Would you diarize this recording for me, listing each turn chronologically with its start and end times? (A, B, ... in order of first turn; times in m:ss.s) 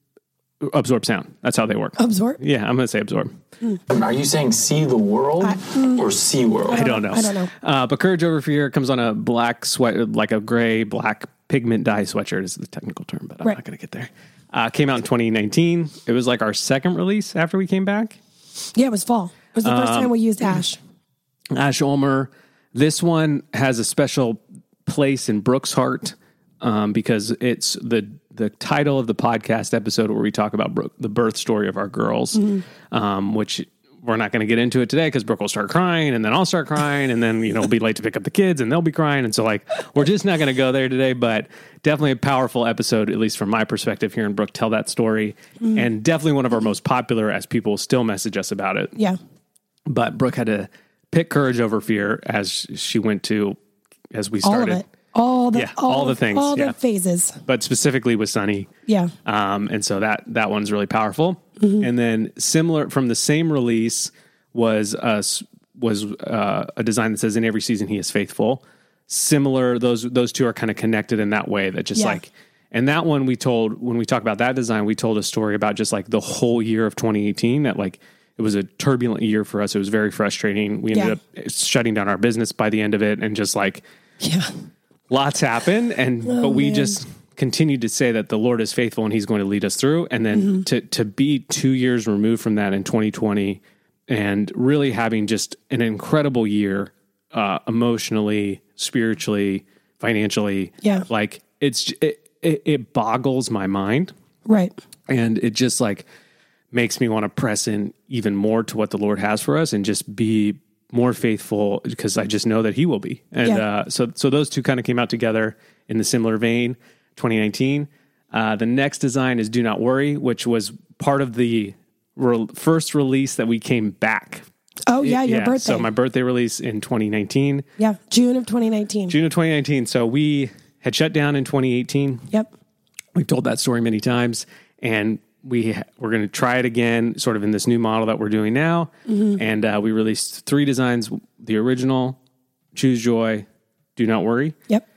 0:00.6-0:03.3 A
0:02.0-0:02.4 B
0:03.9-0:06.9 C
0:05.4-0:06.0 B
0:06.7-0:07.5 B
0:06.7-0:18.2 A
0:18.7-0:20.8 B
0:19.6-0:20.1 A
0:21.5-0:48.9 A
0:49.9-0:53.6 A
0:54.1-0:54.8 A
0:54.4-0:57.4 B
0:55.5-0:56.7 A
0:57.4-0:58.7 A
0:58.9-0:59.1 B
0:59.2-1:23.8 A
1:01.6-1:01.8 B
1:24.2-1:24.5 B
1:25.1-1:44.1 A
1:26.2-1:27.0 B
1:30.3-1:30.6 B
1:44.4-1:44.7 B
1:45.1-1:46.0 A
1:46.7-2:04.4 A
2:04.9-2:05.9 B
2:05.0-2:07.6 A
2:07.8-2:09.1 B
2:09.1-2:12.2 A
2:13.1-2:22.2 A
2:19.1-2:19.4 B
2:22.7-2:24.5 A